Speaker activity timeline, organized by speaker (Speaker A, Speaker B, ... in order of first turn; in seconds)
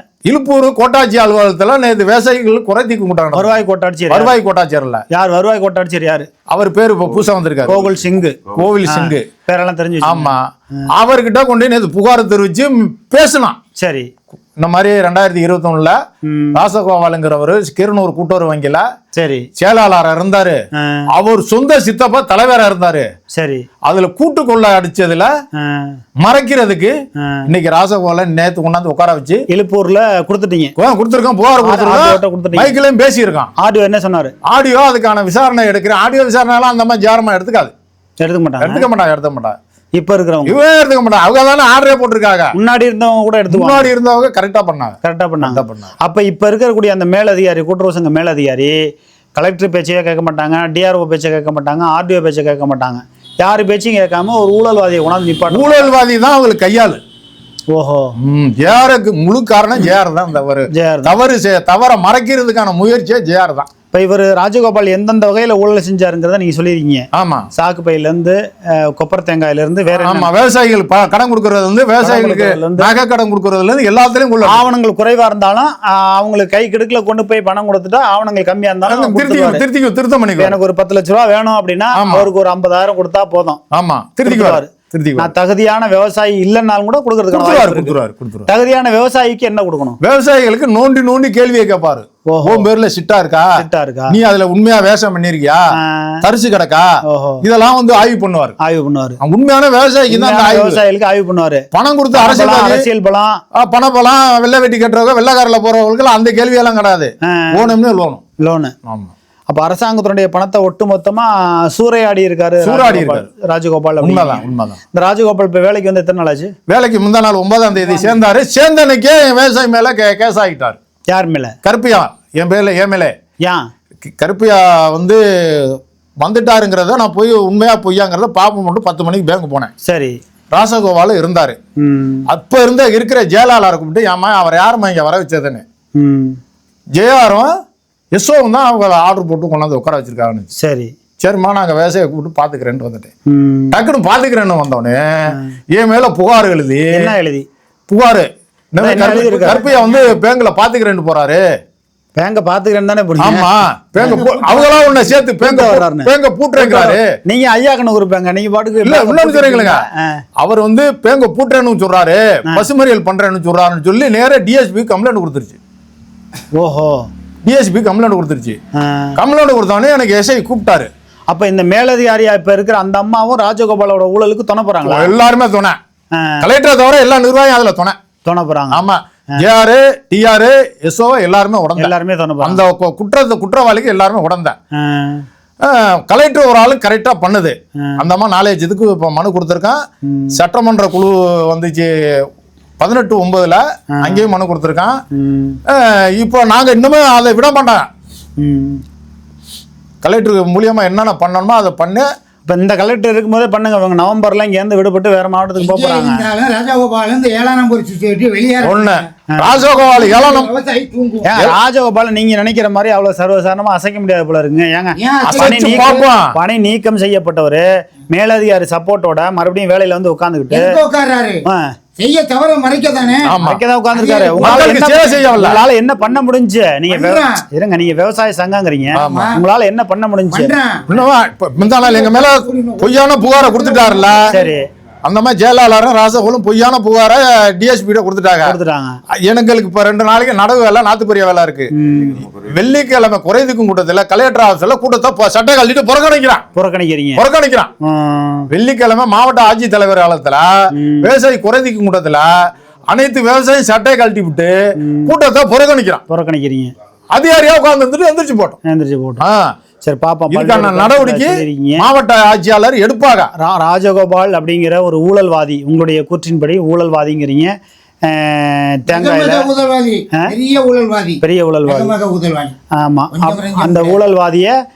Speaker A: 0.2-5.0, 6.5-7.9, 8.5-9.3, 10.0-13.6, 14.6-16.0, 16.6-18.9, 19.6-20.6, 21.2-23.1, 23.8-25.3, 26.2-26.9, 27.5-29.4, 30.8-33.5, 34.5-37.7, 38.6-39.6, 40.5-42.5, 43.5-45.9, 55.5-57.0, 58.2-63.7, 67.2-67.5, 69.9-74.7, 78.9-80.6, 82.0-82.3, 83.7-85.3, 87.3-88.5, 90.0-93.5, 94.1-96.9, 97.4-98.6, 99.2-100.8, 101.7-102.9, 103.5-108.2, 108.9-109.1, 112.6-113.3, 114.0-114.8, 116.7-120.8, 121.6-123.1, 124.0-129.7, 130.5-131.6, 132.3-135.6, 137.0-137.5, 138.1-140.5, 141.2-143.1, 143.7-147.1, 147.9-151.4, 153.2-157.1, 158.8-159.8, 160.4-165.6, 167.4-168.6, 169.2-170.9, 174.8-175.8, 176.4-178.0, 178.7-184.6, 185.6-189.8, 190.4-191.9, 192.8-195.0, 195.7-197.9, 200.0-202.1, 208.6-210.5, 215.3-216.3, 223.2-223.6, 224.4-225.6, 228.9-229.3, 230.9-234.3, 235.1-238.6, 239.2-241.7, 242.3-246.4, 247.2-247.7, 248.5-252.3, 252.9-254.5, 255.1-256.0, 257.1-258.6, 259.2-259.6, 260.3-263.3
Speaker B: 3.3-4.4, 5.1-6.3, 7.7-10.3, 13.8-14.1, 16.3-16.6, 19.1-19.5, 20.8-21.1, 23.4-23.7, 25.6-26.0, 27.2-27.5, 29.5-30.7, 31.6-32.7, 33.6-34.3, 38.2-38.9, 40.0-40.6, 42.5-43.9, 45.0-48.8, 49.4-55.9, 57.7-58.1, 60.7-61.1, 63.9-70.3, 72.0-72.9, 74.5-79.6, 80.4-83.6, 84.2-90.0, 92.3-92.7, 93.6-94.2, 95.8-96.2, 97.1-97.5, 98.6-99.2, 100.1-103.4, 107.2-107.7, 108.4-108.7, 109.5-116.5, 121.1-121.5, 129.8-130.2, 131.8-132.3, 136.0-136.4, 140.6-140.9, 143.3-143.8, 146.9-147.5, 148.8-149.7, 152.2-154.3, 155.4-160.2, 166.6-167.1, 168.8-169.2, 171.3-175.1, 176.2-176.5, 178.2-178.8, 181.8-182.6, 184.8-185.3, 190.1-190.3, 194.0-194.3, 195.1-195.6, 198.4-198.8, 202.5-206.3, 209.3-209.6, 211.2-220.8, 223.4-230.5, 234.3-234.6, 238.4-239.0, 241.7-242.3, 246.6-247.2, 247.8-248.5, 250.7-251.1, 254.8-255.1, 256.1-256.7, 258.6-259.2, 259.8-261.9, 263.4-267.5, 268.1-269.5, 271.2-271.9, 272.8-274.5
Speaker C: 149.4-150.2, 154.0-155.2, 205.6-209.1, 209.8-211.3, 215.0-216.0, 220.5-221.4, 222.0-223.3, 223.9-225.4, 226.9-227.4, 229.0-229.4, 230.3-230.9, 231.7-234.5, 268.9-272.5, 273.1-274.0